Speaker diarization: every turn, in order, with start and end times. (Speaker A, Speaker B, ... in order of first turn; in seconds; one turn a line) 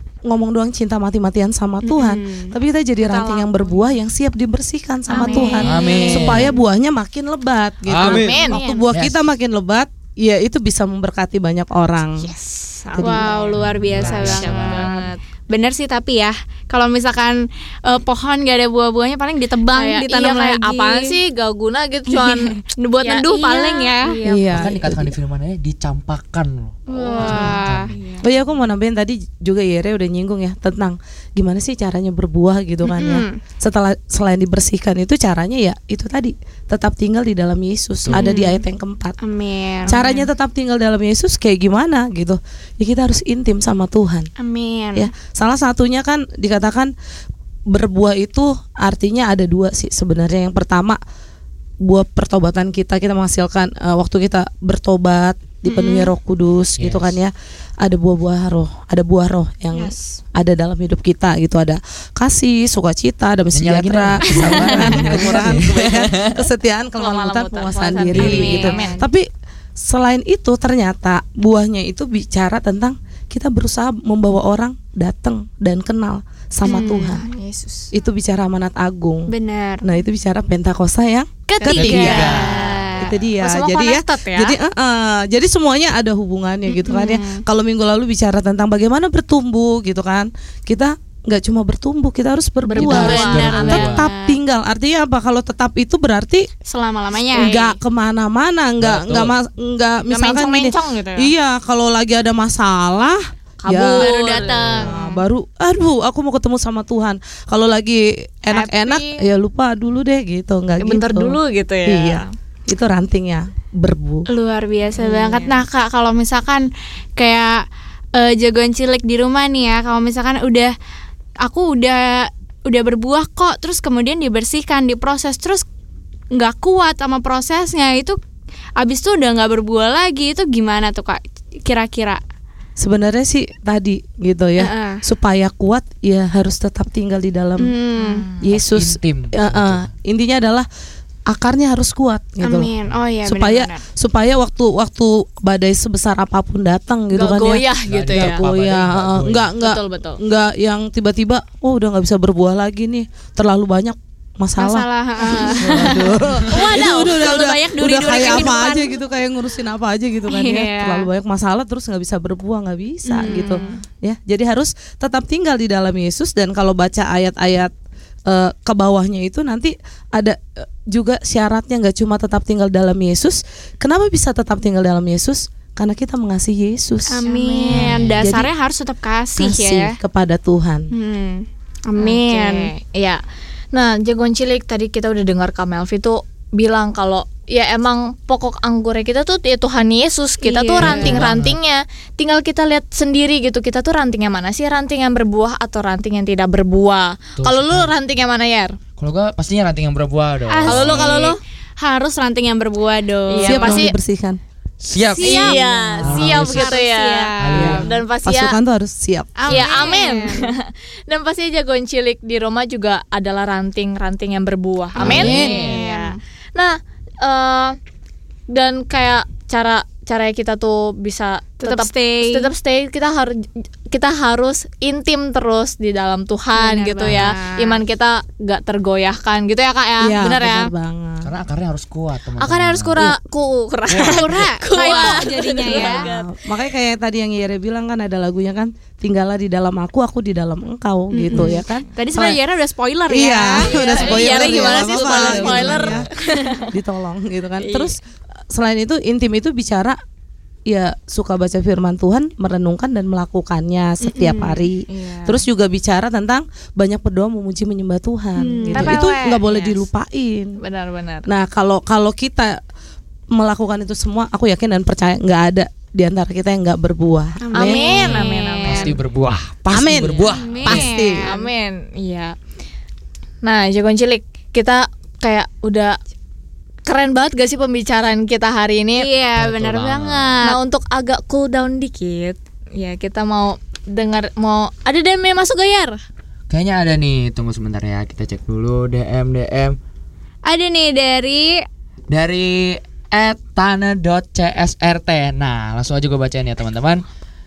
Speaker A: 0.3-12.3
Speaker B: 1.9-2.5
Speaker C: 3.1-3.8
Speaker C: 5.1-6.2
Speaker B: 5.1-6.5
Speaker D: 5.7-6.5
Speaker D: 7.9-8.4
Speaker C: 8.0-8.8
Speaker B: 8.5-8.8
Speaker D: 8.9-9.2
Speaker C: 12.2-13.3
Speaker A: 12.9-13.6
Speaker B: 13.0-21.1
Speaker D: 13.5-14.9
Speaker C: 14.0-15.2
Speaker C: 19.7-24.7
Speaker B: 22.1-24.1
Speaker A: 24.2-25.1
Speaker D: 24.5-27.9
Speaker B: 26.9-27.9
Speaker C: 26.9-28.3
Speaker A: 28.2-39.2
Speaker B: 32.9-33.4
Speaker B: 38.1-38.6
Speaker B: 39.2-40.0
Speaker A: 39.9-44.3
Speaker C: 39.9-40.2
Speaker B: 44.4-45.1
Speaker A: 45.0-46.9
Speaker A: 47.7-51.0
Speaker A: 51.8-69.3
Speaker B: 55.7-56.1
Speaker D: 56.8-57.2
Speaker D: 63.5-66.5
Speaker B: 64.9-65.2
Speaker C: 67.0-69.1
Speaker D: 68.2-68.5
Speaker B: 68.2-68.9
Speaker A: 69.8-77.2
Speaker B: 76.7-77.2
Speaker C: 76.8-77.9
Speaker A: 77.9-79.3
Speaker B: 79.3-79.8
Speaker A: 79.8-96.5
Speaker B: 81.5-83.1
Speaker C: 81.5-84.6
Speaker D: 81.7-82.6
Speaker B: 86.7-87.4
Speaker C: 92.6-93.8
Speaker D: 92.8-94.0
Speaker B: 92.9-94.3
Speaker B: 96.7-97.5
Speaker C: 97.3-97.8
Speaker A: 97.3-114.3
Speaker D: 98.8-99.3
Speaker C: 100.1-101.3
Speaker C: 103.6-105.2
Speaker B: 104.0-104.9
Speaker C: 108.5-109.1
Speaker C: 110.8-112.3
Speaker B: 114.3-116.7
Speaker C: 115.0-115.6
Speaker B: 117.2-117.6
Speaker B: 118.2-120.7
Speaker B: 121.5-125.7
Speaker B: 126.3-128.2
Speaker B: 128.8-132.2
Speaker A: 132.8-137.8
Speaker B: 134.6-135.0
Speaker B: 137.6-138.3
Speaker C: 138.0-138.4
Speaker A: 138.4-140.7
Speaker D: 138.4-139.9
Speaker A: 141.3-142.7
Speaker B: 142.4-143.8
Speaker A: 143.2-167.7
Speaker C: 147.1-148.4
Speaker D: 147.9-149.5
Speaker C: 149.6-150.2
Speaker B: 154.6-159.0
Speaker D: 155.6-156.5
Speaker C: 156.5-157.1
Speaker B: 160.3-161.1
Speaker B: 163.1-163.7
Speaker C: 163.2-163.8
Speaker A: 168.3-178.5
Speaker B: 177.1-180.0
Speaker C: 177.3-178.0
Speaker D: 177.7-178.2
Speaker A: 179.4-180.9
Speaker B: 180.9-182.7
Speaker C: 182.0-183.2
Speaker C: 183.7-198.8
Speaker B: 190.4-191.2
Speaker D: 190.8-191.6
Speaker D: 197.4-197.9
Speaker D: 199.0-201.2
Speaker B: 200.5-203.8
Speaker C: 200.7-201.4
Speaker C: 203.3-203.9
Speaker A: 203.4-204.4
Speaker D: 204.8-206.7
Speaker B: 205.1-207.9
Speaker C: 205.2-208.6
Speaker D: 207.4-208.0
Speaker A: 207.6-209.9
Speaker B: 209.4-210.5
Speaker C: 209.5-217.8
Speaker D: 215.0-215.8
Speaker A: 215.0-215.5
Speaker B: 215.0-216.2
Speaker C: 218.5-230.7
Speaker B: 221.6-222.5
Speaker B: 226.6-227.8
Speaker A: 230.0-231.3
Speaker D: 231.2-233.0
Speaker C: 232.4-236.3
Speaker D: 233.9-234.3
Speaker B: 234.1-236.1
Speaker A: 234.9-242.4
Speaker B: 241.1-246.6
Speaker C: 241.3-241.6
Speaker A: 243.1-246.1
Speaker C: 243.6-246.7
Speaker D: 245.5-245.9
Speaker A: 246.7-248.0
Speaker C: 247.6-247.9
Speaker A: 248.5-250.0
Speaker A: 250.7-260.6
Speaker B: 254.1-254.7
Speaker C: 254.9-255.4
Speaker B: 258.4-259.4
Speaker C: 258.7-259.8
Speaker C: 260.6-261.3
Speaker A: 261.3-262.6
Speaker A: 263.3-268.1
Speaker B: 267.5-268.9
Speaker C: 267.6-269.0
Speaker D: 268.7-270.9
Speaker A: 269.7-271.3
Speaker B: 270.3-271.4
Speaker C: 271.3-272.4
Speaker C: 273.4-276.0
Speaker C: 276.9-279.1
Speaker B: 279.0-280.6
Speaker D: 279.4-280.4
Speaker C: 280.4-286.0
Speaker D: 286.5-289.8
Speaker B: 290.5-291.6
Speaker D: 292.1-297.0